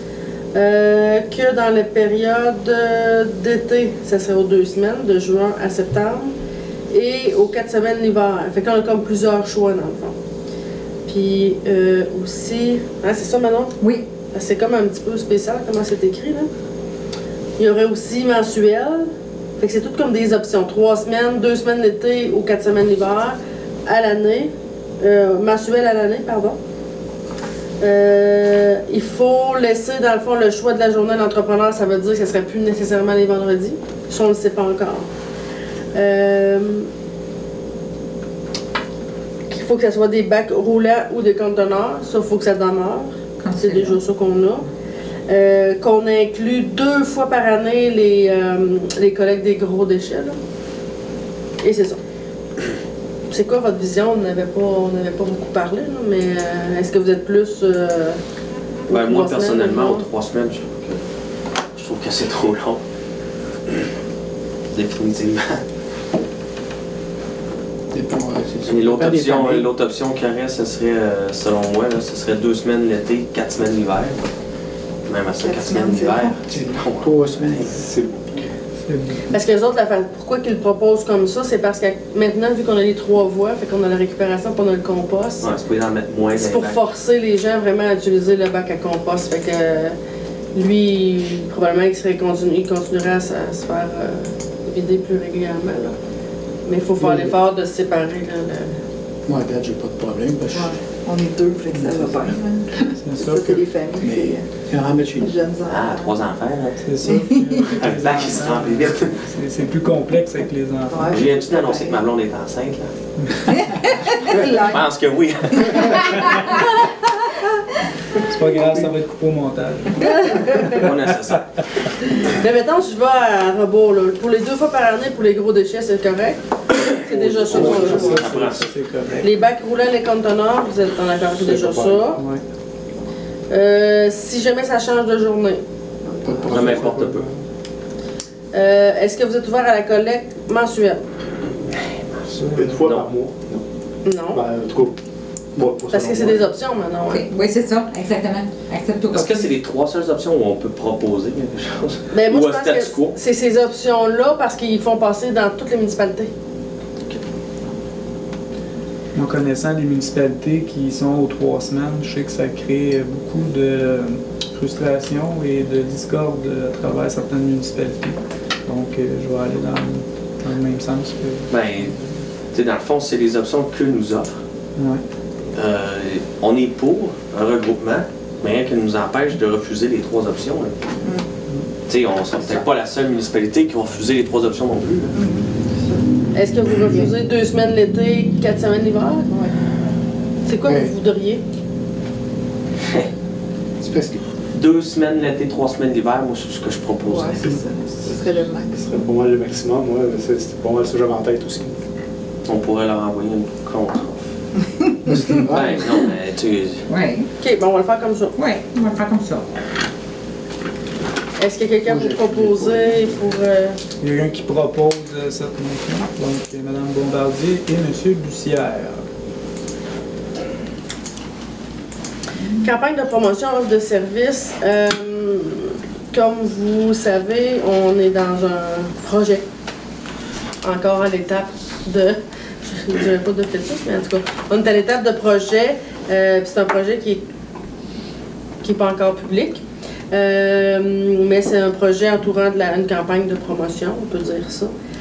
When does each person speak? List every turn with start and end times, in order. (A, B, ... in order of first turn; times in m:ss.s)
0:00.5-0:06.3 A
0:06.9-0:10.1 A
0:11.1-0:13.7 A
0:13.8-0:14.1 B
0:14.3-0:16.5 A
0:17.6-0:19.1 A
0:19.6-0:26.6 A
0:27.8-0:35.1 A
0:35.9-0:36.9 A
0:39.5-0:44.7 A
0:43.4-0:44.0 B
0:45.3-0:50.4 A
0:51.6-0:52.0 A
0:53.3-0:58.2 A
0:58.9-1:00.0 A
0:58.9-1:01.0 C
1:01.8-1:02.8 C
1:04.7-1:05.6 C
1:07.9-1:09.7 D
1:08.7-1:14.2 C
1:15.1-1:17.7 C
1:15.4-1:16.4 E
1:16.5-1:17.8 D
1:17.8-1:18.4 F
1:18.8-1:19.3 G
1:19.3-1:25.5 A
1:25.4-1:26.8 C
1:26.3-1:30.0 A
1:30.6-1:36.0 A
1:36.7-1:38.7 A
1:37.0-1:37.4 D
1:39.3-1:40.7 D
1:40.5-1:44.5 E
1:41.8-1:42.3 D
1:43.0-1:43.6 G
1:44.0-1:45.3 D
1:45.2-1:46.2 E
1:45.7-1:46.8 C
1:46.8-1:51.2 G
1:47.1-1:47.6 E
1:47.8-1:49.2 C
1:50.9-1:52.0 E
1:51.1-1:56.7 C
1:53.6-1:54.9 E
1:55.5-1:56.5 E
1:58.2-2:00.9 G
2:00.3-2:00.6 A
2:00.6-2:01.5 C
2:02.2-2:08.2 A
2:06.8-2:08.6 C
2:07.4-2:09.3 G
2:09.2-2:12.2 A
2:11.5-2:12.0 F
2:12.2-2:12.4 G
2:13.5-2:15.6 A
2:16.2-2:17.2 D
2:16.5-2:17.2 C
2:17.0-2:17.4 G
2:18.5-2:21.0 A
2:21.7-2:22.2 C
2:22.3-2:22.8 G
2:22.5-2:23.6 F
2:22.8-2:23.1 C
2:24.0-2:24.4 A
2:24.3-2:24.9 F
2:25.6-2:26.5 F
2:25.9-2:27.2 A
2:27.1-2:29.5 B
2:29.1-2:33.2 C
2:32.1-2:36.3 A
2:39.2-2:52.2 G
2:51.5-2:51.9 C
2:52.5-2:54.4 C
2:54.8-2:55.0 G
2:55.6-3:00.8 C
3:01.9-3:05.1 C
3:05.1-3:06.0 E
3:06.4-3:09.3 A
3:09.3-3:09.6 E
3:10.5-3:11.4 A
3:10.7-3:10.9 D
3:12.8-3:13.1 C
3:13.8-3:14.2 D
3:14.5-3:17.5 C
3:17.0-3:19.0 E
3:18.1-3:21.8 F
3:22.5-3:24.3 C
3:25.1-3:25.9 D
3:25.5-3:26.9 C
3:26.9-3:27.3 B
3:27.4-3:28.3 A
3:28.4-3:29.5 B
3:31.4-3:33.8 A
3:31.8-3:33.1 D
3:34.0-3:39.0 G
3:42.6-3:49.4 A
3:50.6-3:57.2 A
3:58.6-3:59.6 A
4:00.1-4:04.7 A